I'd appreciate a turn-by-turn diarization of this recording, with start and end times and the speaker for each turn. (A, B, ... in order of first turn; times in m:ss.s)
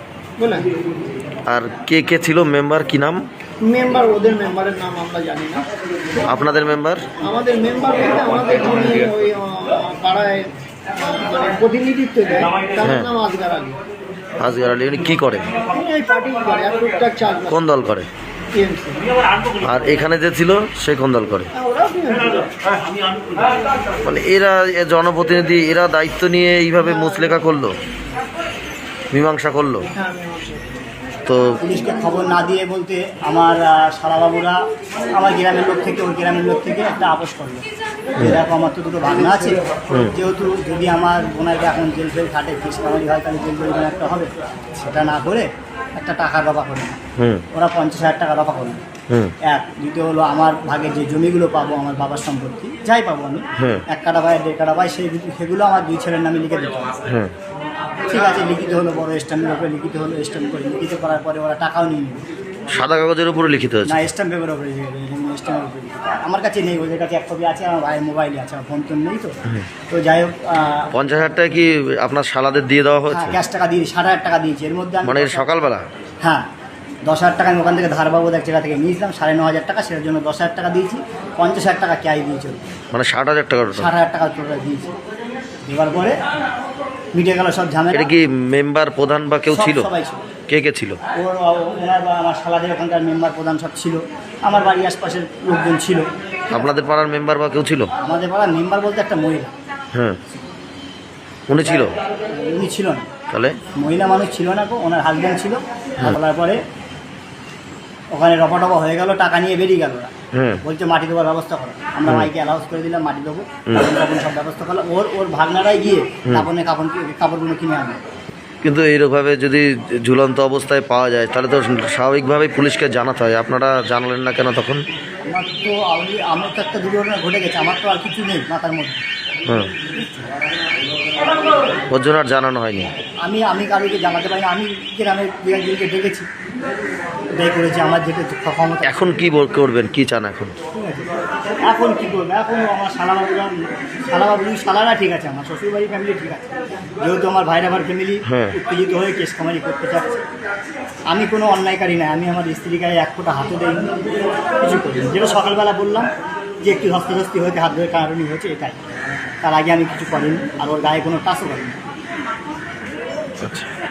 0:00.4-0:00.7 A
0:01.5-0:03.2 B
0:03.6-0:05.7 A
0:06.2-0:07.0 B
0:07.2-0:13.8 A
0:12.8-0:13.1 B
0:14.4-0:15.5 B
0:15.7-0:17.7 A
0:17.5-0:18.1 B
0:18.5-0:19.0 A
0:19.6-0:21.5 B
0:21.5-0:22.6 A
0:24.0-0:27.8 B
0:29.1-0:29.9 B
0:29.9-0:30.6 A
0:31.2-0:31.6 B
0:31.6-0:34.6 C
0:35.2-0:37.6 C
0:38.2-0:39.6 C
0:40.1-0:47.0 C
0:47.2-0:47.4 B
0:47.5-0:48.8 C
0:49.5-0:57.0 C
0:53.6-0:53.8 B
0:57.0-0:57.3 B
0:58.1-1:02.2 C
1:02.7-1:04.1 B
1:03.8-1:09.3 C
1:09.9-1:10.9 C
1:10.9-1:13.4 B
1:13.1-1:15.4 C
1:15.0-1:15.8 B
1:17.1-1:22.7 C
1:22.9-1:23.9 B
1:23.7-1:24.9 C
1:25.7-1:26.2 C
1:27.1-1:28.1 C
1:27.9-1:29.9 B
1:29.5-1:30.2 C
1:30.5-1:31.0 B
1:31.1-1:36.0 C
1:36.5-1:37.9 B
1:38.0-1:39.5 C
1:41.5-1:41.9 B
1:41.6-1:43.1 C
1:43.3-1:43.6 B
1:43.7-1:46.6 C
1:48.1-1:50.1 C
1:50.3-1:50.6 B
1:50.6-1:58.0 C
1:58.6-2:04.8 B
2:05.3-2:09.0 C
2:11.9-2:12.9 B
2:13.2-2:16.3 C
2:17.4-2:19.1 C
2:18.8-2:20.6 B
2:20.7-2:30.2 C
2:28.2-2:28.6 B
2:31.1-2:34.0 C
2:34.6-2:36.1 C
2:36.6-2:38.8 C
2:39.4-2:41.8 C
2:43.4-2:43.7 B